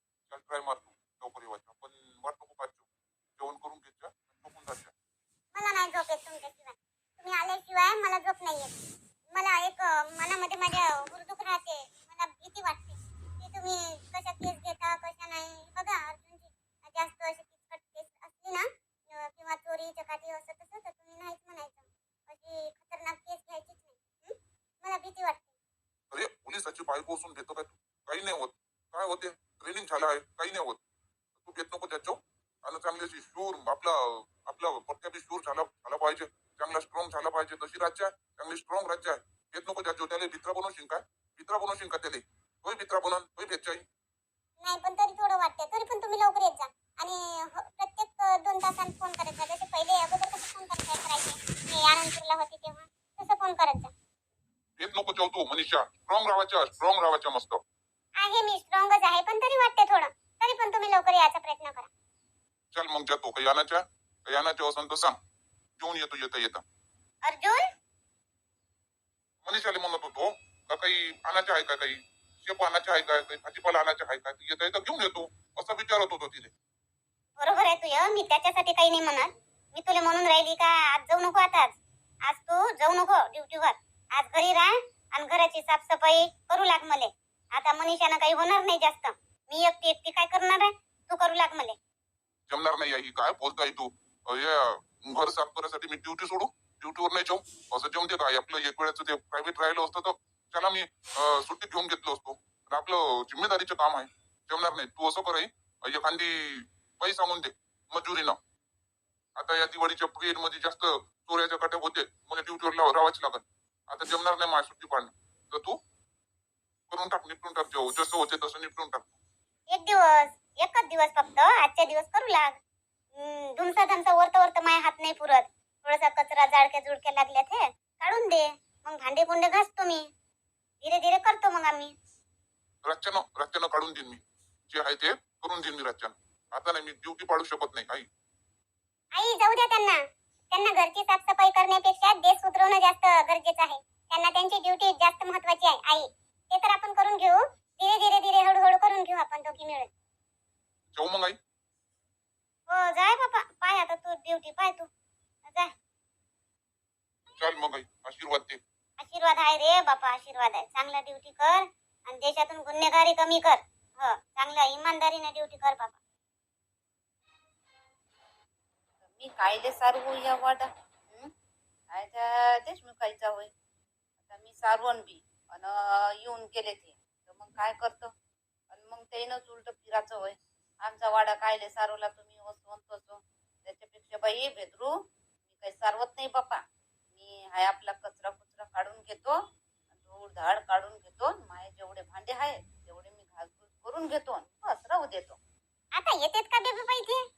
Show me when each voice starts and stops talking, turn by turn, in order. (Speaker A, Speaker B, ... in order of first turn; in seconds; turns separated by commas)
Speaker A: 0.3-4.9, Speaker B: 5.5-8.7, Speaker B: 9.3-25.5, Speaker A: 26.1-30.8, Speaker A: 31.4-43.8, Speaker B: 44.6-53.9, Speaker A: 54.8-57.6, Speaker B: 58.2-61.9, Speaker A: 62.7-65.2, Speaker A: 65.8-66.6, Speaker B: 67.2-67.6, Speaker A: 69.4-76.5, Speaker B: 77.4-91.8, Speaker A: 92.5-108.4, Speaker A: 109.4-115.8, Speaker A: 116.9-119.2, Speaker B: 119.7-122.6, Speaker B: 123.1-130.0, Speaker B: 130.8-131.9, Speaker A: 132.8-138.1, Speaker B: 139.1-140.0, Speaker B: 140.5-149.9, Speaker A: 150.9-151.4, Speaker B: 152.7-154.9, Speaker B: 155.4-155.7, Speaker A: 157.4-158.6, Speaker B: 159.0-166.0, Speaker C: 169.0-171.3, Speaker C: 171.9-173.5, Speaker C: 174.2-178.1, Speaker C: 178.7-186.6, Speaker C: 187.1-189.4, Speaker C: 189.9-195.4, Speaker B: 195.9-197.2